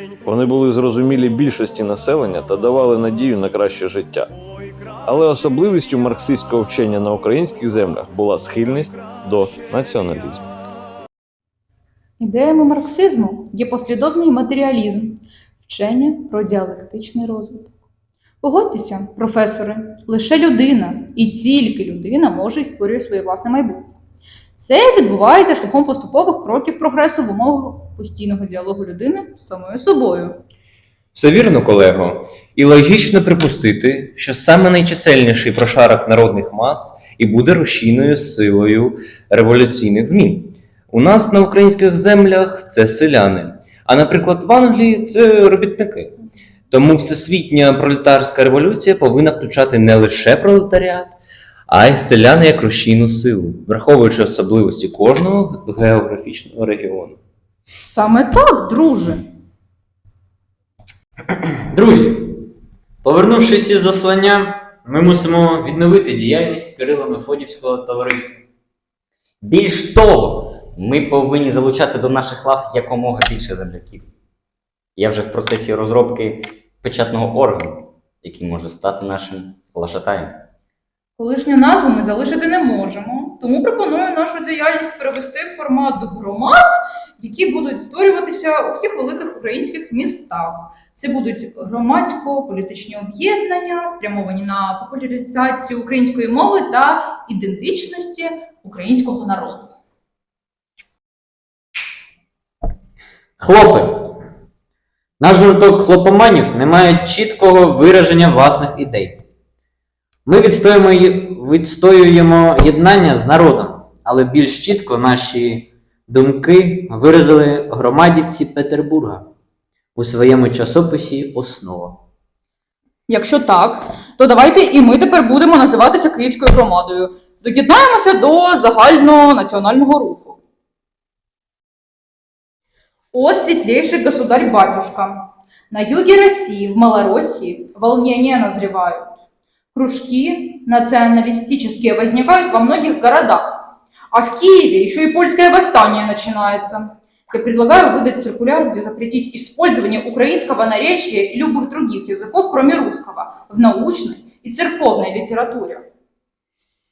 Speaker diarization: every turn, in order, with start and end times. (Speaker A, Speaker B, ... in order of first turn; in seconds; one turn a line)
Speaker A: 0.2-4.3
Speaker A: 5.1-10.5
Speaker B: 12.2-17.7
Speaker B: 18.4-23.9
Speaker B: 24.6-30.4
Speaker C: 31.1-46.1
Speaker C: 46.7-51.2
Speaker C: 51.7-57.2
Speaker B: 57.8-59.2
Speaker D: 61.7-62.5
Speaker D: 63.0-68.4
Speaker E: 69.4-74.1
Speaker E: 75.0-80.4
Speaker B: 81.2-86.6
Speaker B: 87.2-99.8
Speaker D: 103.4-104.2
Speaker D: 105.2-109.2
Speaker D: 110.3-119.3
Speaker D: 120.0-122.0
Speaker B: 123.1-130.4
Speaker B: 133.1-139.2
Speaker B: 139.7-143.6
Speaker B: 144.1-155.8